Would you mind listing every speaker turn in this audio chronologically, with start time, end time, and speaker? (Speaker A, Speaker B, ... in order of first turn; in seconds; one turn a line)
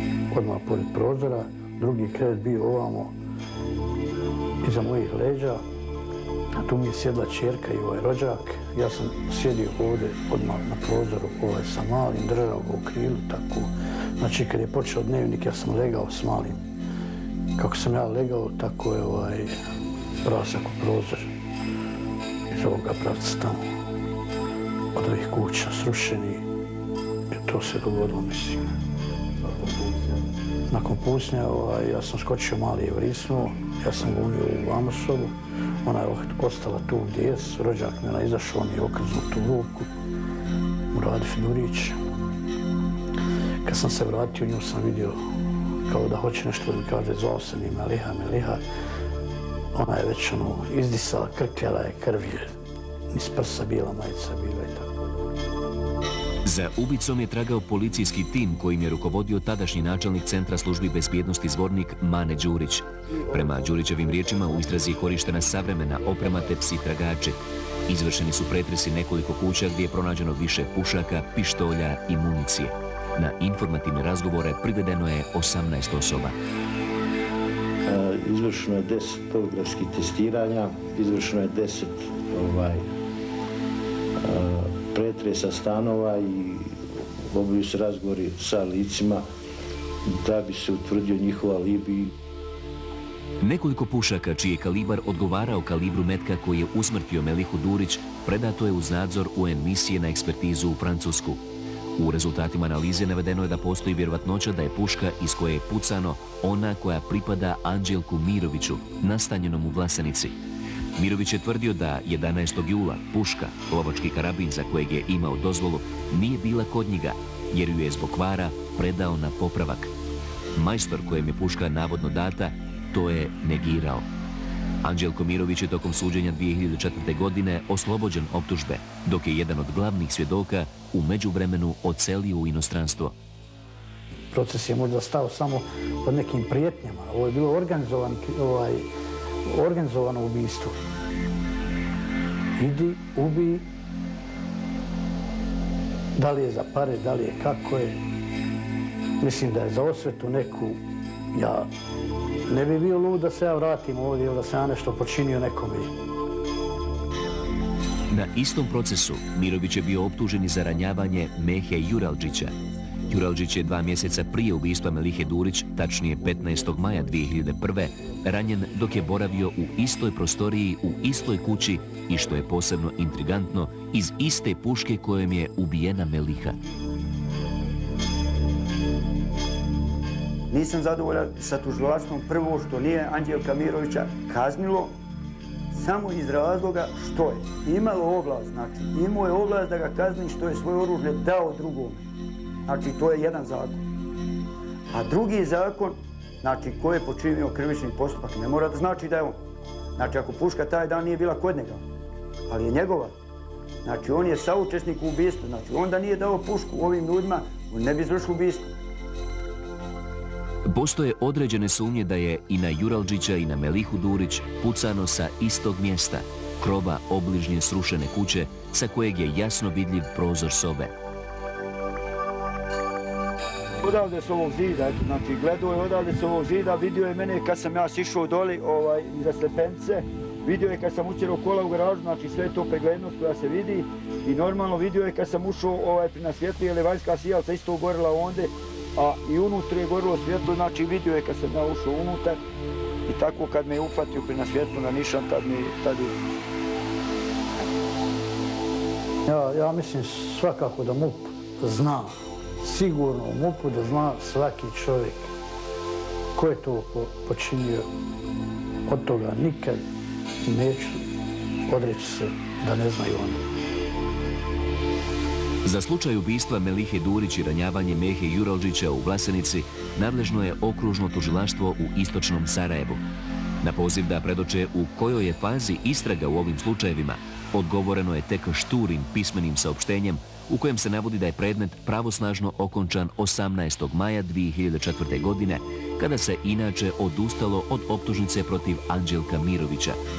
Speaker A: 0.3-3.1
Speaker A: 4.6-5.6
Speaker A: 6.6-16.6
Speaker A: 17.6-19.5
Speaker A: 20.2-21.3
Speaker A: 22.5-23.7
Speaker A: 24.9-26.4
Speaker A: 27.3-28.6
Speaker A: 30.7-39.9
Speaker A: 40.9-42.0
Speaker A: 43.6-45.2
Speaker A: 45.9-48.6
Speaker A: 49.7-52.5
Speaker A: 53.1-54.9
Speaker B: 56.5-76.4
Speaker C: 63.1-64.8
Speaker C: 66.0-66.5
Speaker D: 77.9-82.8
Speaker D: 84.2-86.7
Speaker D: 87.3-89.2
Speaker D: 90.1-92.1
Speaker B: 93.4-101.4
Speaker B: 102.0-110.4
Speaker B: 111.0-119.9
Speaker B: 120.5-124.1
Speaker B: 124.8-133.2
Speaker A: 134.3-138.9
Speaker A: 139.4-140.8
Speaker A: 142.6-143.7
Speaker A: 146.2-148.0
Speaker A: 149.2-150.8
Speaker A: 151.3-151.7
Speaker A: 152.5-155.9
Speaker B: 158.1-162.5
Speaker B: 163.1-176.6
Speaker C: 166.5-167.1
Speaker C: 167.9-169.7
Speaker C: 171.8-172.1
Speaker C: 180.5-184.9
Speaker C: 185.7-192.1
Speaker C: 192.7-193.8
Speaker C: 194.9-199.4
Speaker C: 200.0-201.8
Speaker C: 202.5-203.1
Speaker C: 203.8-208.7
Speaker B: 210.7-220.9
Speaker C: 223.8-242.4
Speaker C: 243.1-246.2
Speaker A: 249.2-255.3
Speaker A: 256.3-257.9
Speaker A: 258.9-259.8
Speaker A: 260.4-261.0
Speaker A: 261.7-263.4
Speaker B: 265.6-273.0
Speaker B: 273.6-290.0